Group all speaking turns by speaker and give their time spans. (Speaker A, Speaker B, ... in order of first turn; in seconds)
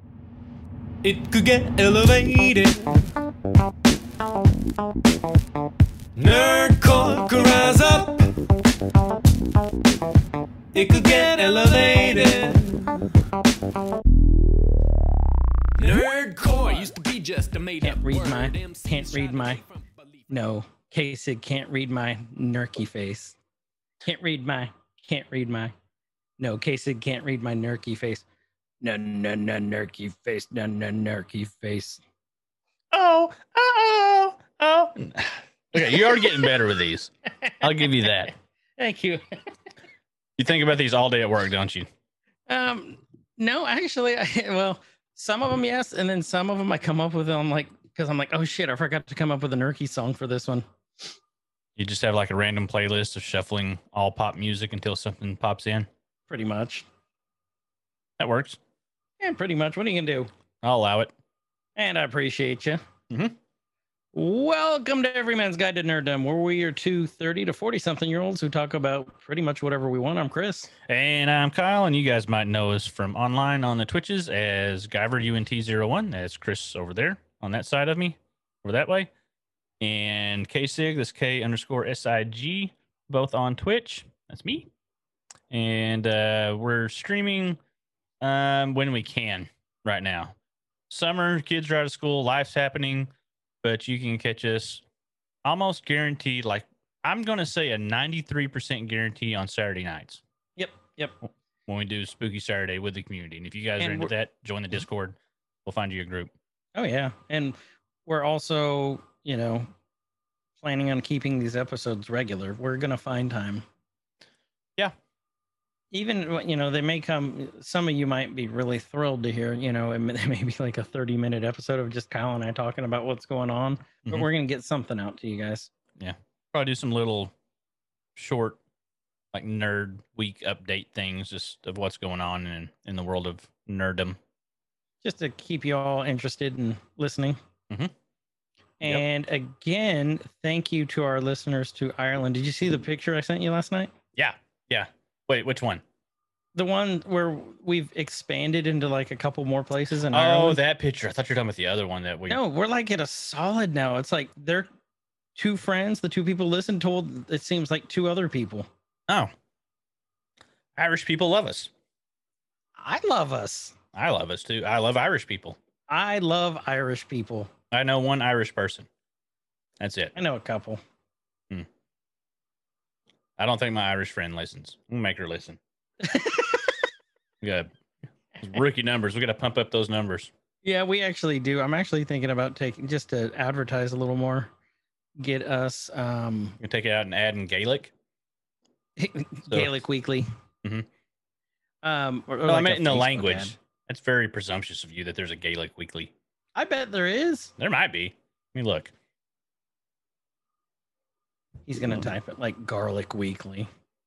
Speaker A: 1.0-2.9, 6.2-8.4, 10.7-12.9, 15.8-20.3
Speaker B: 17.8-19.6, 20.3-23.4, 24.0-25.7, 26.4-28.2, 28.8-32.0, 35.8-36.6, 37.4-39.4, 42.5-50.6, 56.3-56.9, 59.2-60.3, 61.8-62.8, 64.1-70.7, 100.6-101.2, 103.8-104.1, 106.8-109.7, 110.6-113.7, 115.9-125.7, 135.0-137.4, 138.8-143.9, 146.6-150.6, 152.3-154.7, 155.4-158.7, 162.8-163.8, 165.9-167.5, 170.2-170.8, 176.0-176.8, 180.6-184.5, 185.2-186.6, 189.0-190.3, 191.8-193.6, 196.6-197.5, 201.7-203.7
Speaker C: 32.9-38.3, 40.4-41.9, 51.8-55.9, 58.2-58.6, 60.6-61.1, 63.1-63.4, 70.9-79.1, 79.8-84.7, 85.5-87.6, 88.2-90.4, 90.9-93.1, 93.6-94.8, 95.5-100.2, 101.7-106.3, 126.0-127.3, 128.2-128.6, 129.3-134.2, 144.2-145.8, 150.1-152.4, 159.1-159.3, 160.8-161.7, 163.9-165.6, 167.7-168.9, 169.8-170.1, 173.4-175.6, 177.4-177.7, 178.4-180.3, 186.6-187.9, 189.5-189.8, 192.4-196.1, 197.6-198.9